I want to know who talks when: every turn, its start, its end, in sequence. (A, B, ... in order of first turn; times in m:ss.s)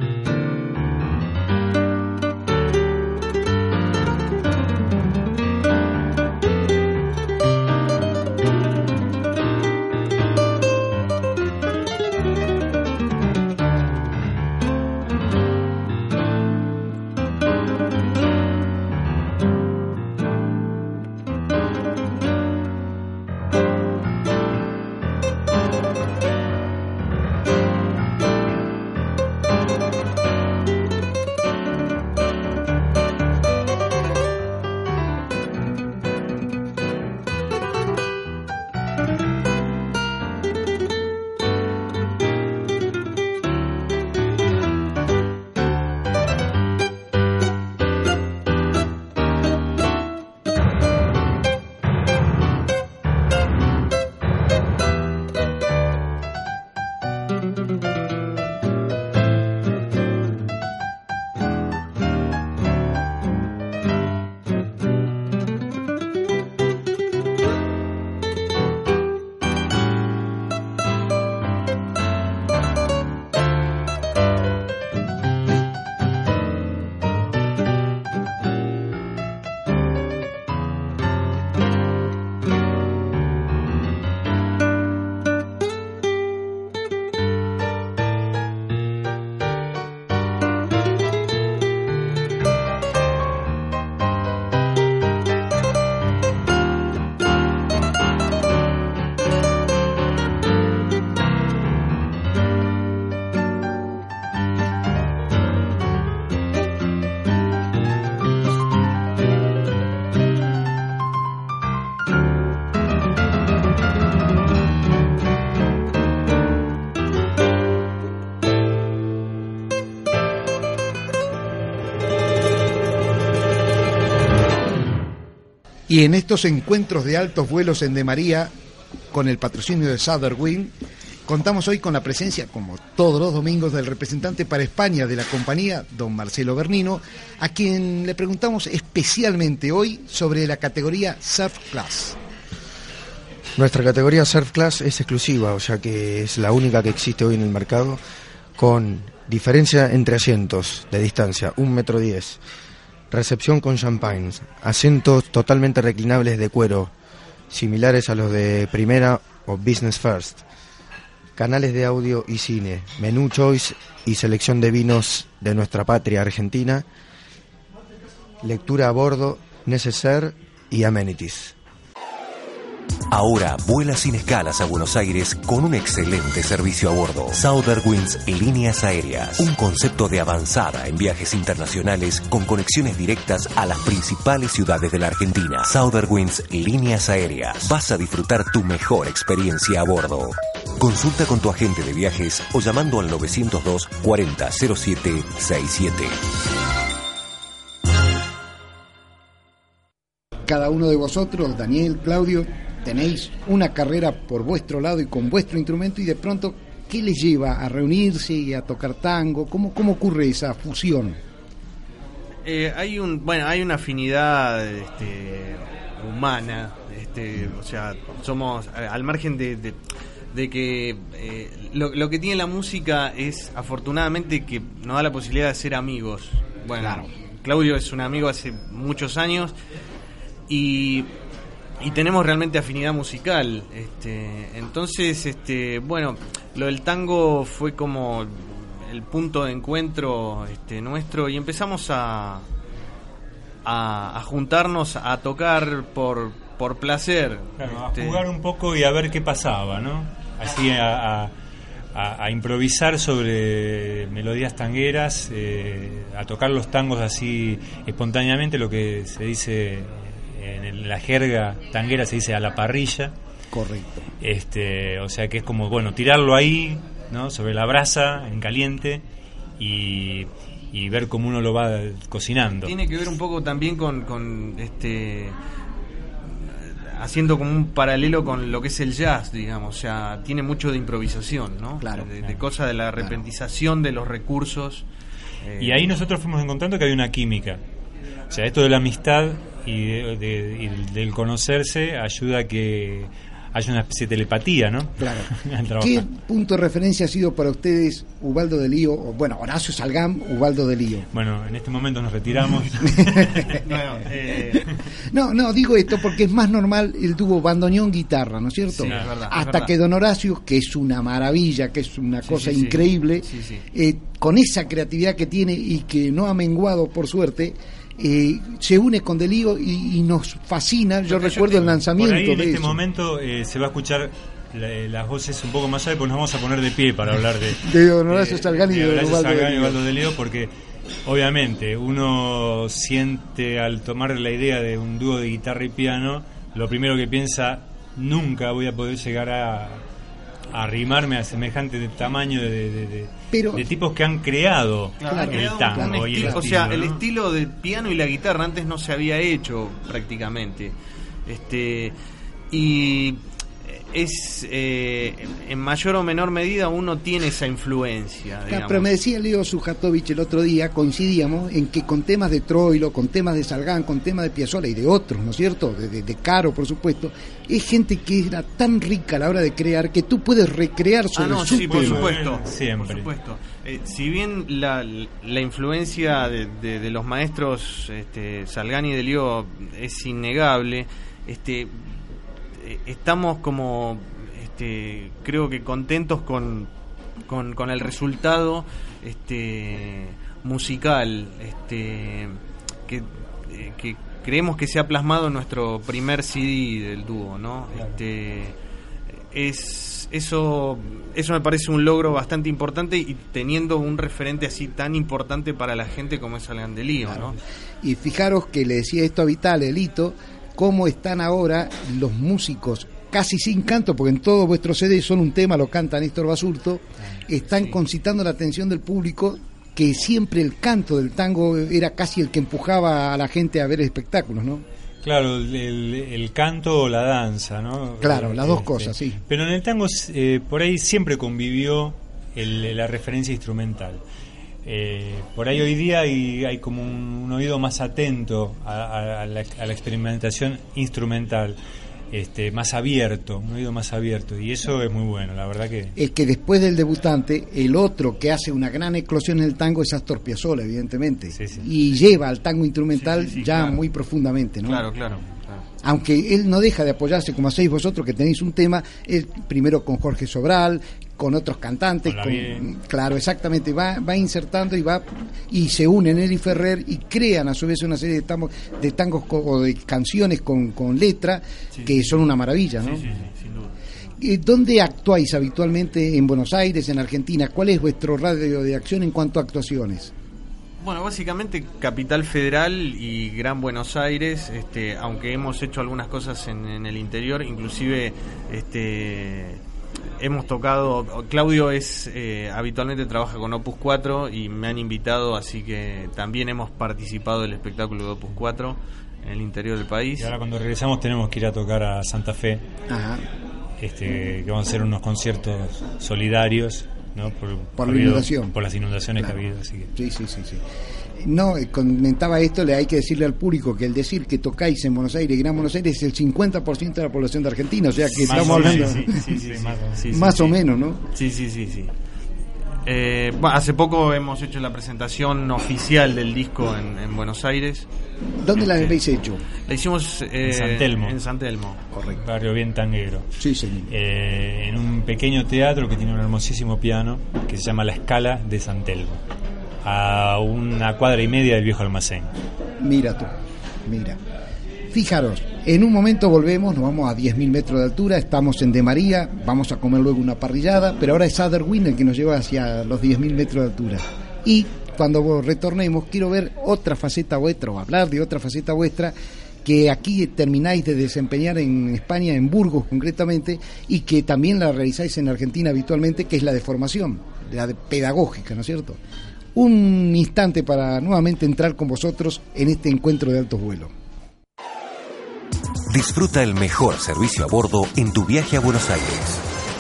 2:05.9-2:08.5 A
2:09.1-2:10.7 A
2:11.3-2:22.2 A
2:23.6-2:28.0 B
2:28.6-2:32.4 B
2:33.1-2:36.9 B
2:37.5-2:40.4 B
2:41.4-2:46.8 B
2:48.4-2:51.5 B
2:53.1-3:16.2 C
3:20.5-3:31.2 A
3:32.4-3:39.8 D
3:40.3-3:49.5 D
3:46.8-3:47.1 A
3:50.5-3:51.1 D
3:51.8-4:02.4 D
4:03.6-4:08.2 D
4:07.6-4:11.3 E
4:11.9-4:23.1 E
4:23.5-4:24.1 A
4:24.2-4:29.0 E
4:29.6-4:32.7 E
4:32.6-4:35.4 D
4:36.2-4:44.8 D
4:41.8-4:42.1 A
4:45.4-4:45.9 D
4:45.6-4:47.6 E
4:48.3-4:56.0 E
4:55.0-5:01.1 A
5:01.1-5:03.6 E
5:02.8-5:03.6 A
5:03.5-5:04.7 D
5:05.0-5:22.8 A
5:08.8-5:09.7 D
5:08.8-5:09.1 E
5:12.2-5:13.6 D
5:21.1-5:21.7 D
5:21.7-5:30.5 E
5:27.6-5:29.8 A
5:31.0-5:39.8 E
5:40.5-5:47.0 E
5:43.3-5:43.6 A
5:45.0-5:50.7 D
5:45.0-5:46.5 A
5:51.2-5:52.0 D
5:52.5-5:58.9 D
5:58.5-6:12.1 A
6:11.1-6:21.9 D
6:11.5-6:13.1 E
6:22.6-6:26.7 D
6:27.2-6:38.5 D
6:39.3-6:47.4 D
6:47.8-7:04.6 A
7:05.0-7:14.0 E
7:08.0-7:09.2 A
7:14.6-7:21.6 E
7:22.1-7:26.0 E
7:26.0-7:34.9 A
7:31.3-7:31.7 E
7:32.9-7:33.8 D
7:34.6-7:35.6 D
7:35.8-7:53.0 A
7:42.0-7:42.7 E
7:51.7-7:52.2 D
7:52.8-7:53.7 D
7:54.2-8:00.1 A
8:00.8-8:09.6 D
8:10.2-8:20.3 D
8:20.2-8:22.6 E
8:22.9-8:23.2 A
8:23.8-8:29.9 E
8:27.8-8:28.6 A
8:29.9-8:30.6 A
8:31.2-8:39.2 A
8:38.1-8:40.6 D
8:38.2-8:40.0 E
8:40.1-8:41.0 A
8:41.1-8:41.9 D
8:42.8-8:47.9 D
8:48.4-8:49.4 A
8:49.7-8:51.8 D
8:50.4-8:51.2 E
8:51.9-8:52.2 A
8:52.2-8:53.3 E
8:53.4-8:53.9 A
8:53.9-8:59.2 E
8:59.8-9:02.3 E
9:02.8-9:03.3 A
9:03.8-9:04.2 A
9:04.9-9:29.0 A
9:29.5-9:33.9 A
9:35.9-9:39.4 C